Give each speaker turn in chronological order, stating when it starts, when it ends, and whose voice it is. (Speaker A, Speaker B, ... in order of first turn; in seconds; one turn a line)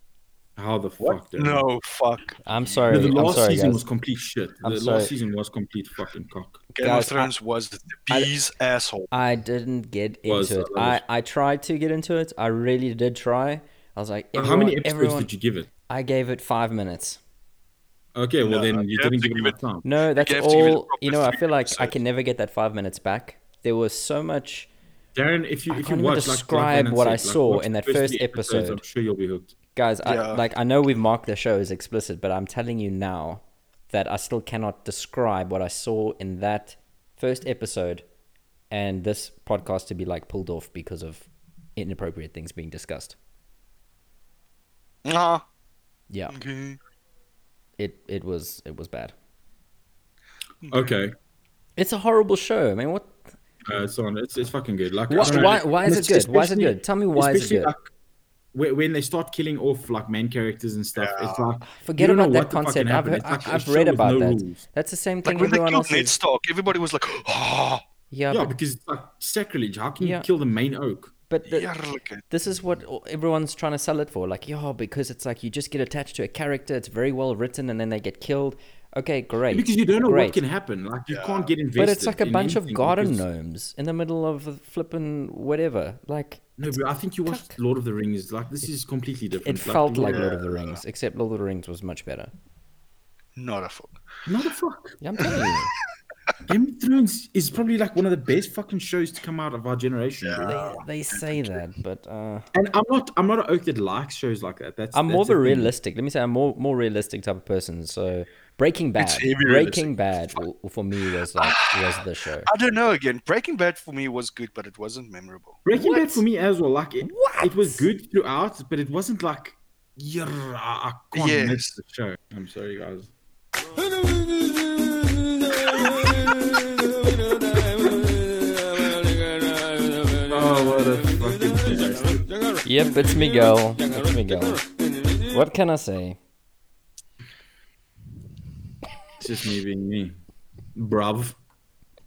Speaker A: 0.6-1.7
Speaker B: 1.0-3.0
Speaker C: 2.5-3.8
Speaker A: 2.9-6.6
Speaker C: 4.6-5.1
Speaker B: 6.8-9.1
Speaker C: 6.8-7.3
Speaker C: 9.1-15.3
Speaker A: 10.3-11.0
Speaker A: 14.3-15.7
Speaker C: 15.9-17.2
Speaker A: 18.1-19.9
Speaker B: 18.4-19.6
Speaker C: 19.8-24.7
Speaker B: 20.2-22.0
Speaker A: 25.1-29.6
Speaker C: 25.7-28.8
Speaker C: 29.8-38.0
Speaker B: 30.0-30.4
Speaker C: 38.7-43.2
Speaker B: 45.0-45.4
Speaker B: 46.3-46.8
Speaker C: 47.8-49.1
Speaker B: 50.6-50.9
Speaker A: 50.7-51.2
Speaker C: 51.8-53.2
Speaker A: 53.7-57.9
Speaker C: 55.1-57.7
Speaker B: 55.2-55.7
Speaker A: 58.5-64.6
Speaker B: 61.0-61.5
Speaker C: 61.7-66.1
Speaker B: 65.2-67.8
Speaker C: 68.1-68.5
Speaker A: 68.3-71.1
Speaker C: 70.0-70.3
Speaker C: 71.3-71.7
Speaker B: 71.5-72.2
Speaker C: 72.3-80.4
Speaker A: 79.5-83.2
Speaker B: 81.1-81.5
Speaker C: 81.8-86.6
Speaker A: 86.6-90.4
Speaker C: 87.3-87.5
Speaker C: 89.4-92.3
Speaker B: 90.0-90.8
Speaker B: 93.4-94.0
Speaker A: 94.3-95.0
Speaker C: 95.0-95.7
Speaker A: 96.5-100.8
Speaker B: 100.2-100.6
Speaker C: 100.5-102.5
Speaker A: 102.5-105.7
Speaker C: 104.9-112.5
Speaker B: 109.0-110.4
Speaker B: 111.4-115.6
Speaker A: 115.7-123.1
Speaker C: 115.7-116.2
Speaker C: 117.0-117.9
Speaker B: 121.1-121.8
Speaker B: 125.4-126.1
Speaker A: 130.1-132.4
Speaker C: 132.6-136.2
Speaker A: 139.2-140.2
Speaker A: 140.8-141.4